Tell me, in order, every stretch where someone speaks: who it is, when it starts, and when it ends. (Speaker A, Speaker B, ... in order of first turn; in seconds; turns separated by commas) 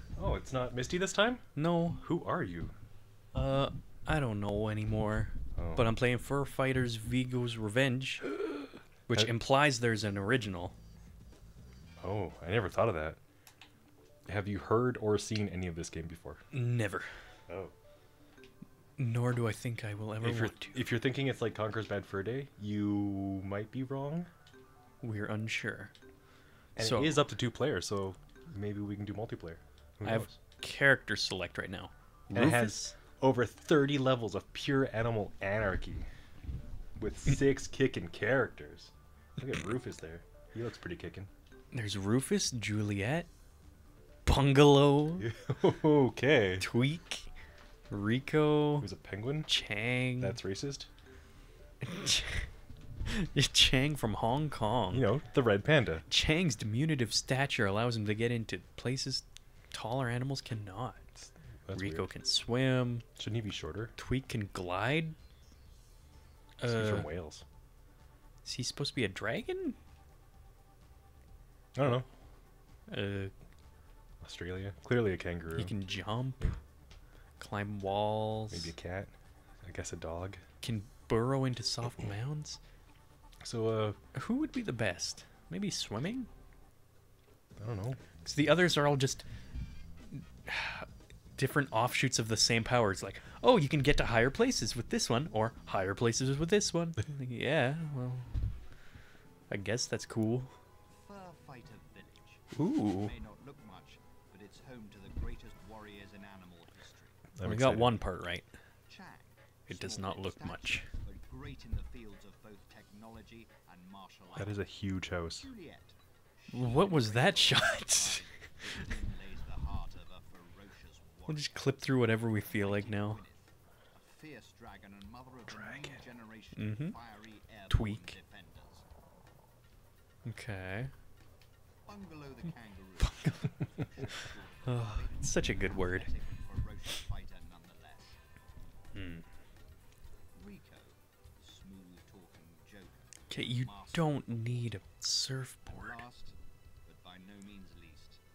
Speaker A: 0.2-1.5, Speaker B: 1.6-2.0, Speaker A: 2.0-2.7, Speaker B: 3.3-8.3, Speaker A: 5.6-5.9, Speaker B: 9.1-10.7, Speaker A: 12.0-13.2, Speaker A: 14.3-16.4, Speaker B: 16.5-17.1, Speaker A: 17.5-17.7, Speaker B: 19.0-20.8, Speaker A: 20.2-24.3, Speaker B: 25.0-25.9, Speaker A: 26.8-30.3, Speaker B: 26.8-27.3, Speaker B: 30.0-33.0, Speaker A: 32.3-36.1, Speaker A: 37.0-41.3, Speaker B: 41.7-43.3, Speaker B: 44.3-45.3, Speaker A: 45.2-46.6, Speaker B: 46.6-47.3, Speaker B: 47.9-48.9, Speaker A: 48.8-49.5, Speaker B: 49.5-50.4, Speaker A: 50.2-50.9, Speaker B: 51.8-52.5, Speaker B: 53.0-55.1, Speaker A: 54.9-56.1, Speaker B: 56.1-61.0, Speaker A: 61.2-62.1, Speaker B: 61.8-63.1, Speaker A: 63.2-63.9, Speaker B: 64.0-65.2, Speaker B: 66.6-67.1, Speaker A: 66.7-67.4, Speaker B: 68.4-69.8, Speaker A: 71.8-72.1, Speaker B: 72.9-73.3, Speaker A: 74.2-75.8, Speaker B: 75.6-76.6, Speaker B: 77.4-78.7, Speaker A: 78.5-79.1, Speaker A: 79.6-80.4, Speaker B: 80.6-82.6, Speaker A: 83.4-84.0, Speaker B: 84.2-86.3, Speaker A: 87.6-88.0, Speaker B: 88.2-89.2, Speaker B: 90.1-98.3, Speaker B: 99.5-100.5, Speaker C: 100.9-102.4, Speaker B: 102.5-103.2, Speaker C: 103.0-107.1, Speaker A: 107.4-108.0, Speaker B: 107.4-108.5, Speaker C: 108.9-114.6, Speaker B: 109.7-110.9, Speaker A: 114.4-115.5, Speaker C: 115.4-121.6, Speaker B: 116.5-118.7, Speaker B: 121.3-123.2, Speaker C: 122.3-128.8, Speaker B: 125.5-126.0, Speaker B: 126.5-127.0, Speaker B: 127.7-128.2, Speaker B: 130.2-130.9, Speaker C: 131.9-138.2, Speaker B: 133.0-133.5, Speaker B: 134.6-136.1, Speaker B: 138.9-139.2, Speaker C: 140.3-144.2, Speaker B: 143.3-146.0, Speaker C: 145.7-148.2